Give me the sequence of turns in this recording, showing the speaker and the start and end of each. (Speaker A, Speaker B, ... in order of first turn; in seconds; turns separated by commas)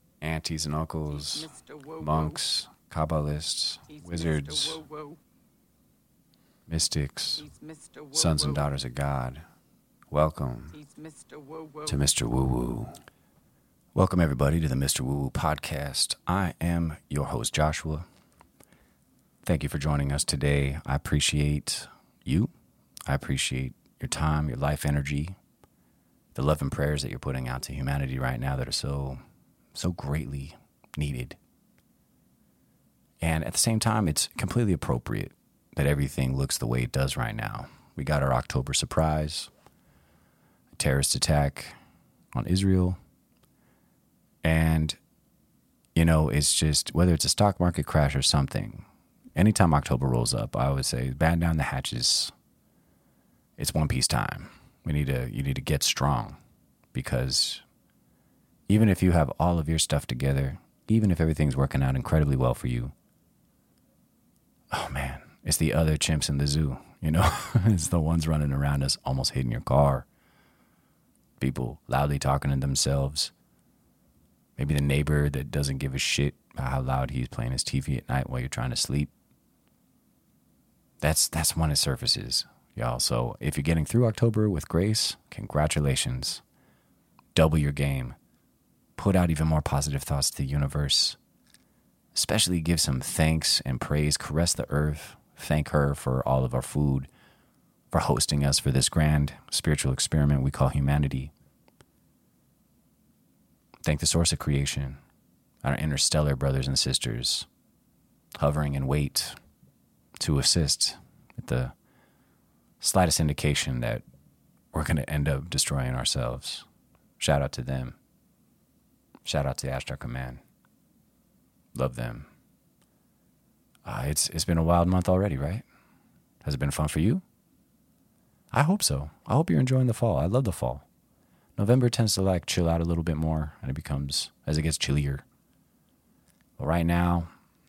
Speaker A: 0.2-4.8, Speaker B: 1.1-2.4, Speaker B: 3.9-5.2, Speaker A: 6.7-7.5, Speaker B: 7.4-8.7, Speaker A: 8.1-9.4, Speaker A: 10.1-10.8, Speaker B: 10.7-12.0, Speaker A: 11.9-12.9, Speaker A: 13.9-18.1, Speaker A: 19.4-22.5, Speaker A: 23.1-25.4, Speaker A: 26.3-29.2, Speaker A: 29.8-31.4, Speaker A: 33.2-39.5, Speaker A: 40.8-41.8, Speaker A: 42.3-43.0, Speaker A: 44.4-45.0, Speaker A: 46.0-52.3, Speaker A: 53.6-56.4, Speaker A: 56.9-57.6, Speaker A: 58.7-62.9, Speaker A: 64.7-70.1, Speaker A: 71.4-73.3, Speaker A: 74.6-79.1, Speaker A: 81.0-86.4, Speaker A: 87.3-88.2, Speaker A: 89.0-91.2, Speaker A: 92.1-97.1, Speaker A: 97.9-101.3, Speaker A: 103.8-105.0, Speaker A: 105.6-107.5, Speaker A: 108.4-109.4, Speaker A: 110.2-111.7, Speaker A: 112.8-114.0, Speaker A: 114.7-116.7, Speaker A: 117.2-118.0, Speaker A: 119.2-120.4, Speaker A: 121.8-122.3, Speaker A: 123.8-125.6, Speaker A: 126.4-127.2, Speaker A: 128.5-130.8, Speaker A: 131.6-135.2, Speaker A: 136.6-137.3